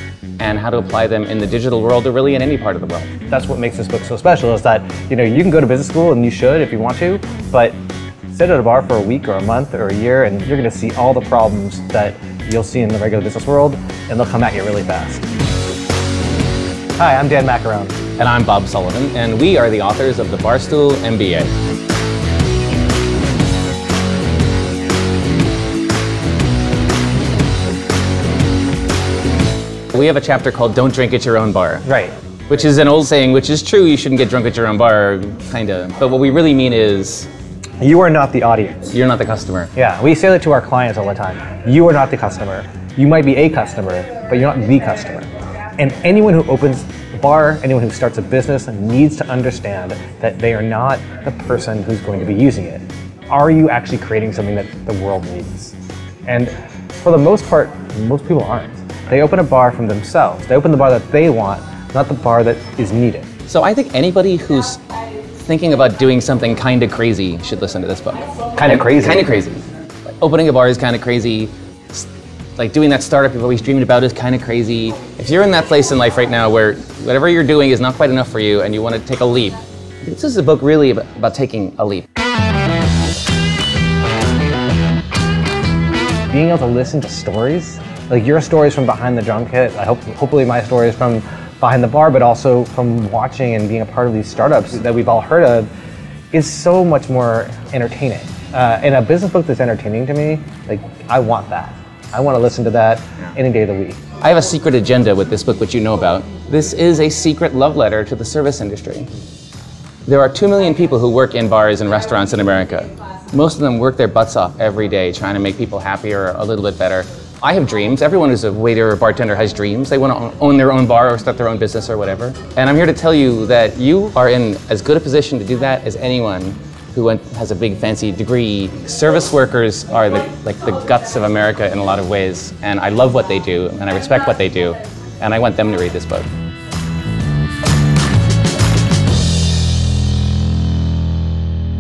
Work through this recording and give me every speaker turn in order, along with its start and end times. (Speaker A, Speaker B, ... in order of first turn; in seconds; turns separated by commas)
Speaker A: 0.4-3.1, Speaker B: 3.3-7.8, Speaker B: 8.3-15.2, Speaker B: 17.0-18.0, Speaker A: 18.2-21.5, Speaker A: 29.9-31.9, Speaker B: 31.9-32.1, Speaker A: 32.5-37.3, Speaker B: 37.8-38.9, Speaker A: 38.9-39.7, Speaker B: 39.8-45.3, Speaker B: 45.8-63.3, Speaker A: 63.5-64.8, Speaker A: 65.4-82.1, Speaker B: 68.6-69.3, Speaker B: 86.3-95.7, Speaker B: 96.3-104.0, Speaker A: 104.2-109.1, Speaker A: 110.1-136.3